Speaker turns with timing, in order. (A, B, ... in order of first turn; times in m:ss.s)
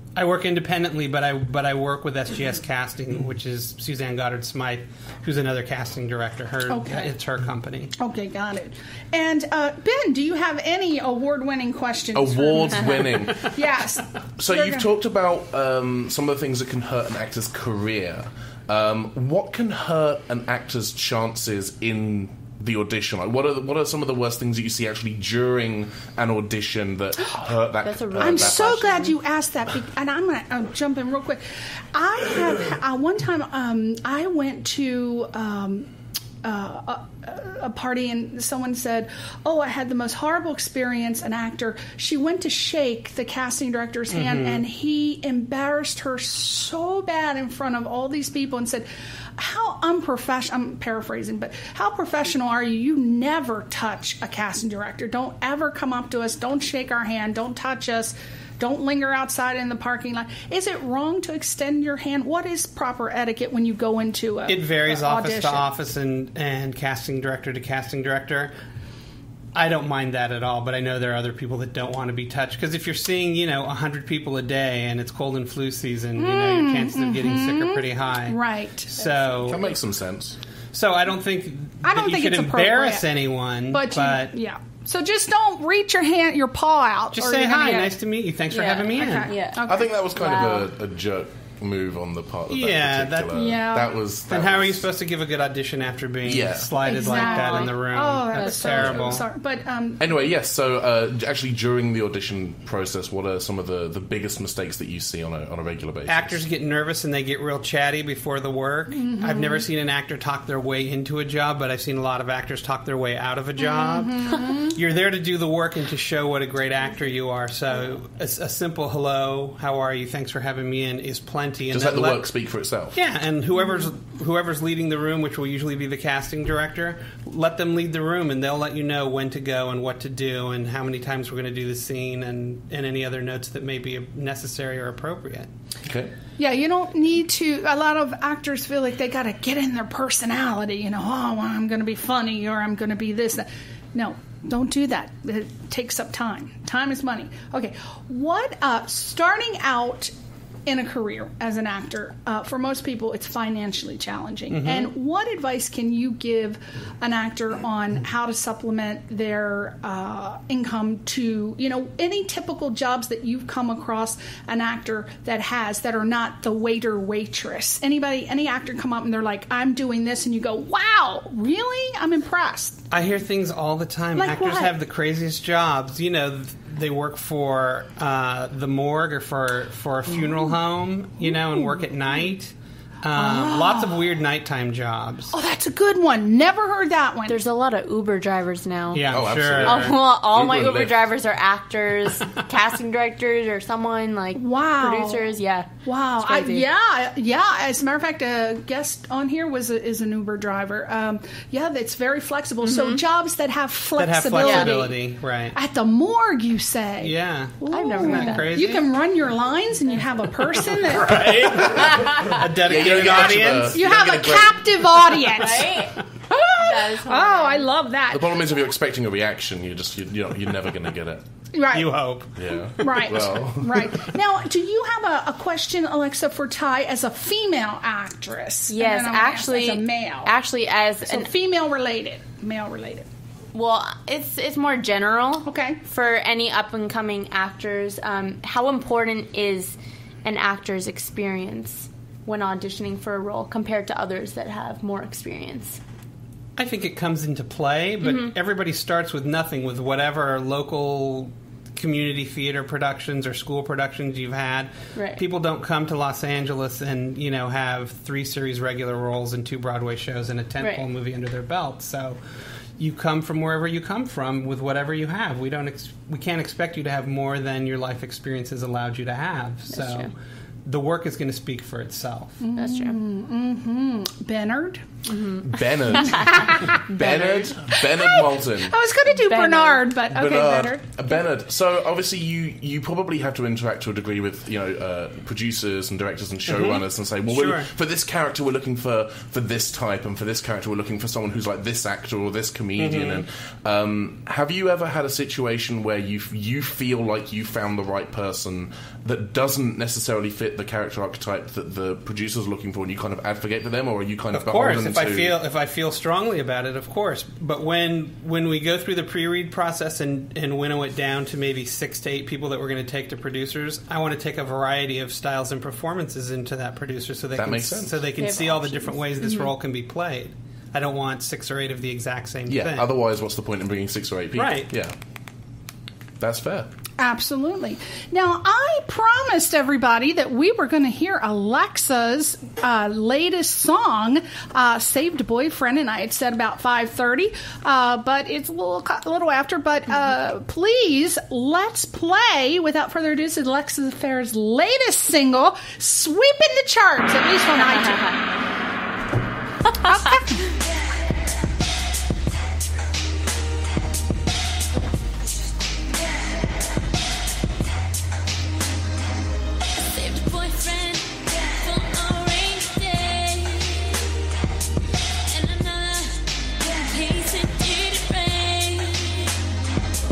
0:00.2-0:07.9 A
0:06.7-0:07.1 B
0:08.0-0:14.9 B
0:12.1-0:13.6 C
0:14.4-0:28.9 C
0:27.8-0:29.2 D
0:28.2-0:31.4 B
0:31.9-0:35.9 B
0:36.4-0:48.8 B
0:44.1-0:44.6 A
0:49.4-1:05.7 B
1:04.5-1:08.5 A
1:09.5-1:19.6 A
1:16.2-1:18.9 B
1:19.4-1:20.4 C
1:20.7-1:24.3 A
1:21.8-1:23.1 B
1:23.7-1:27.9 B
1:27.1-1:29.3 A
1:28.5-1:30.7 D
1:28.9-1:29.9 B
1:29.6-1:34.8 C
1:32.5-1:33.5 A
1:33.3-1:34.0 B
1:34.3-1:39.2 A
1:36.2-1:36.9 C
1:36.8-1:40.1 B
1:36.9-1:37.7 D
1:38.3-1:38.6 D
1:38.7-1:39.1 C
1:40.0-1:46.4 C
1:46.1-2:02.3 A
1:48.9-1:49.6 B
1:53.6-1:54.8 B
2:01.7-2:03.0 C
2:02.9-2:15.5 A
2:15.8-2:16.1 C
2:16.4-2:30.1 B
2:30.6-2:52.8 B
2:34.5-2:34.9 A
2:52.9-3:05.3 A
2:54.2-2:54.7 B
3:01.2-3:01.8 B
3:03.1-3:04.0 B
3:05.3-3:07.4 B
3:07.3-3:16.7 D
3:08.9-3:10.0 A
3:09.1-3:11.0 C
3:14.3-3:15.3 B
3:15.8-3:25.0 B
3:22.6-3:23.0 D
3:24.0-3:25.6 A
3:24.4-3:24.7 D
3:25.5-3:31.3 B
3:27.0-3:28.8 A
3:27.7-3:28.5 D
3:30.7-3:33.8 A
3:31.8-3:34.8 C
3:31.8-3:32.2 D
3:33.7-3:38.4 B
3:35.1-3:36.0 D
3:36.5-3:37.7 D
3:38.1-3:41.2 C
3:41.5-3:42.0 B
3:41.7-3:43.2 A
3:42.4-3:44.0 C
3:42.8-3:50.3 B
3:48.7-3:51.3 D
3:51.0-3:53.0 B
3:53.5-4:05.8 D
3:55.4-3:55.8 B
4:06.6-4:22.2 A
4:08.0-4:08.3 D
4:14.9-4:15.2 D
4:22.8-4:30.1 A
4:29.7-4:30.1 D
4:30.6-4:32.4 A
4:32.4-4:35.0 B
4:32.5-4:33.0 D
4:35.1-4:35.4 D
4:35.4-4:38.7 C
4:35.9-4:36.5 D
4:36.0-4:37.0 B
4:37.0-4:37.5 D
4:37.7-4:41.2 B
4:39.1-4:39.8 D
4:40.1-5:05.4 C
4:46.5-4:47.7 A
4:52.8-4:53.2 A
5:04.3-5:22.9 A
5:17.4-5:18.1 C
5:18.2-5:19.5 D
5:22.5-5:24.9 C
5:24.4-5:24.7 A
5:26.2-5:26.7 C
5:27.0-5:48.2 B
5:47.6-5:48.1 D
5:49.8-5:50.5 B
5:59.9-6:03.6 D
6:05.3-6:06.1 D
6:06.6-6:09.0 D